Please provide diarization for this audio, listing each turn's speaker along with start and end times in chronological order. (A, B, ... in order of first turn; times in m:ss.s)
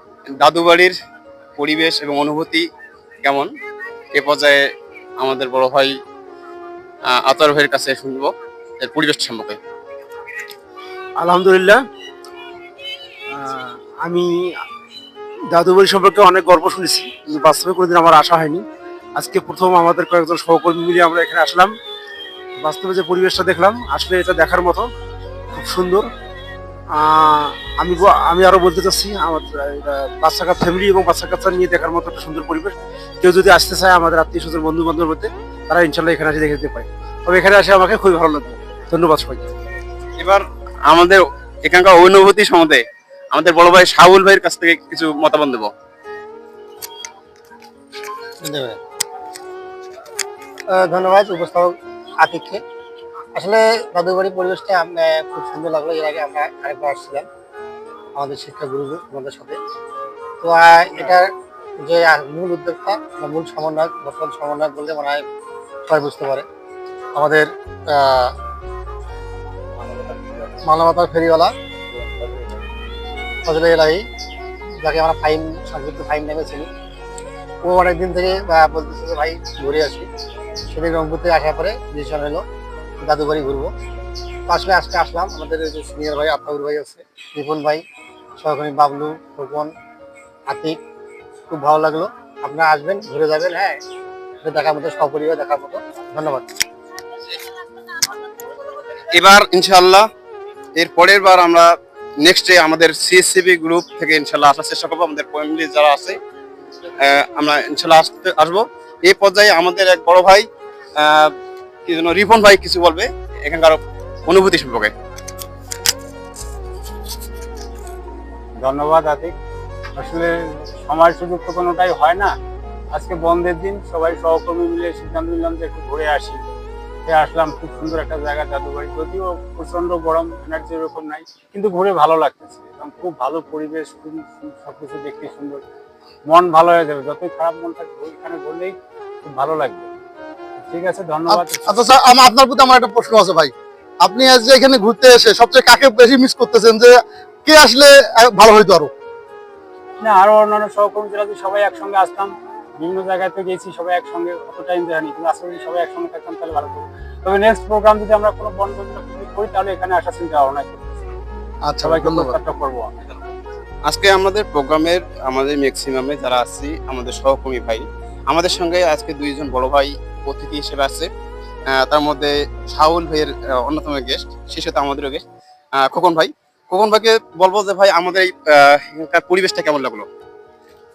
0:00.4-0:00.9 A
0:01.6-0:02.6 A
0:03.2-0:03.5 A
0:04.1-0:04.6 A
0:05.2-0:05.9 A
0:07.1-0:09.6 A
0:11.2-0:11.8 B
0:13.3-0:14.5 B
0:15.5-0:18.6 B
0:19.2-0:21.8 B
0:22.6-0:24.9 B
0:25.5-0:26.1 B
0:27.0-0:39.5 B
0:40.2-0:45.7 A
0:48.4-0:48.8 C
0:50.7-0:52.6 C
0:53.3-0:57.3 C
0:58.2-0:59.6 C
1:00.4-1:05.2 C
1:05.9-1:06.4 C
1:07.1-1:08.3 C
1:10.6-1:11.5 C
1:13.4-1:14.0 C
1:14.8-1:16.7 C
1:17.6-1:20.1 C
1:20.7-1:22.4 C
1:23.0-1:23.7 C
1:24.5-1:27.8 C
1:28.4-1:29.7 C
1:30.5-1:30.8 C
1:31.5-1:33.8 C
1:34.4-1:36.4 C
1:39.1-1:40.0 A
1:40.8-1:41.7 A
1:42.2-1:46.2 A
1:47.0-1:50.4 A
1:51.0-1:51.3 A
1:51.9-1:54.9 A
1:58.6-1:59.3 D
2:00.0-2:02.3 D
2:02.9-2:06.4 D
2:07.1-2:15.6 D
2:16.3-2:19.9 D
2:20.6-2:21.9 D
2:21.3-2:28.9 E
2:30.0-2:41.0 D
2:41.7-2:42.4 E
2:41.8-2:43.1 D
2:43.9-2:51.1 A
2:51.8-2:55.2 A
2:55.8-3:00.1 A